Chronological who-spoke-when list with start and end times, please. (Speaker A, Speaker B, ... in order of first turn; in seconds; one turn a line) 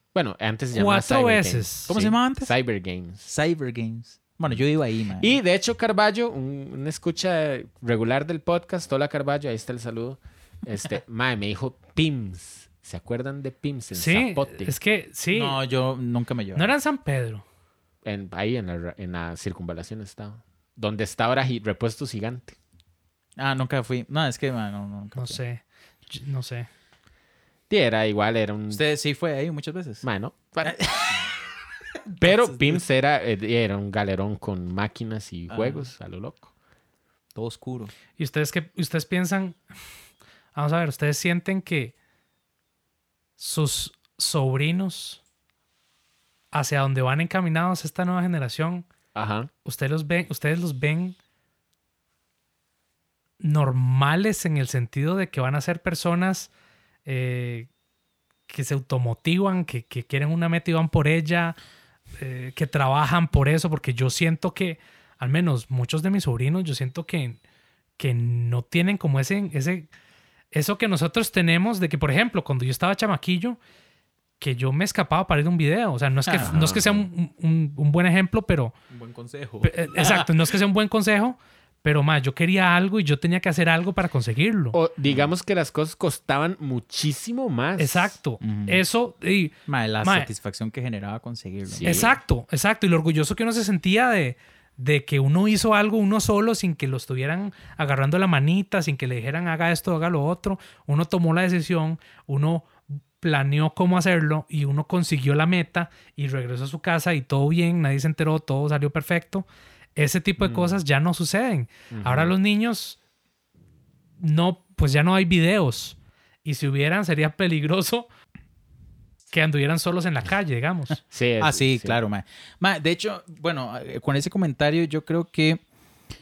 Speaker A: 0.1-3.3
Speaker B: 0.7-1.9
Speaker C: 1.9-2.5
Speaker C: 3.2-5.3
Speaker A: 5.2-14.7
Speaker B: 13.9-15.6
Speaker C: 15.3-16.7
Speaker B: 16.6-17.4
Speaker A: 18.0-22.6
Speaker C: 23.4-25.4
Speaker B: 25.1-26.7
Speaker A: 27.7-28.8
Speaker C: 28.7-30.0
Speaker A: 30.0-30.8
Speaker C: 30.6-31.2
Speaker C: 32.1-32.8
Speaker A: 32.2-36.5
Speaker C: 35.5-35.9
Speaker C: 37.3-37.9
Speaker B: 38.2-39.6
Speaker B: 40.5-41.9
Speaker B: 43.4-45.2
Speaker B: 46.5-48.9
Speaker A: 49.1-49.5
Speaker B: 49.6-51.1
Speaker B: 53.4-56.5
Speaker B: 57.0-57.7
Speaker B: 58.5-61.5
Speaker B: 62.2-67.4
Speaker B: 68.0-69.9
Speaker B: 70.5-73.6
Speaker B: 74.4-78.7
Speaker C: 76.2-76.5
Speaker A: 76.4-77.0
Speaker C: 78.9-80.3
Speaker B: 79.6-84.8
Speaker A: 84.7-88.1
Speaker C: 85.0-85.3
Speaker B: 87.8-90.3
Speaker C: 88.4-88.8
Speaker C: 89.7-92.0
Speaker A: 91.7-92.1
Speaker B: 91.8-113.0
Speaker A: 110.4-110.8
Speaker A: 111.9-112.3
Speaker B: 114.2-118.1
Speaker B: 119.3-121.0
Speaker A: 121.1-122.0
Speaker C: 121.4-125.6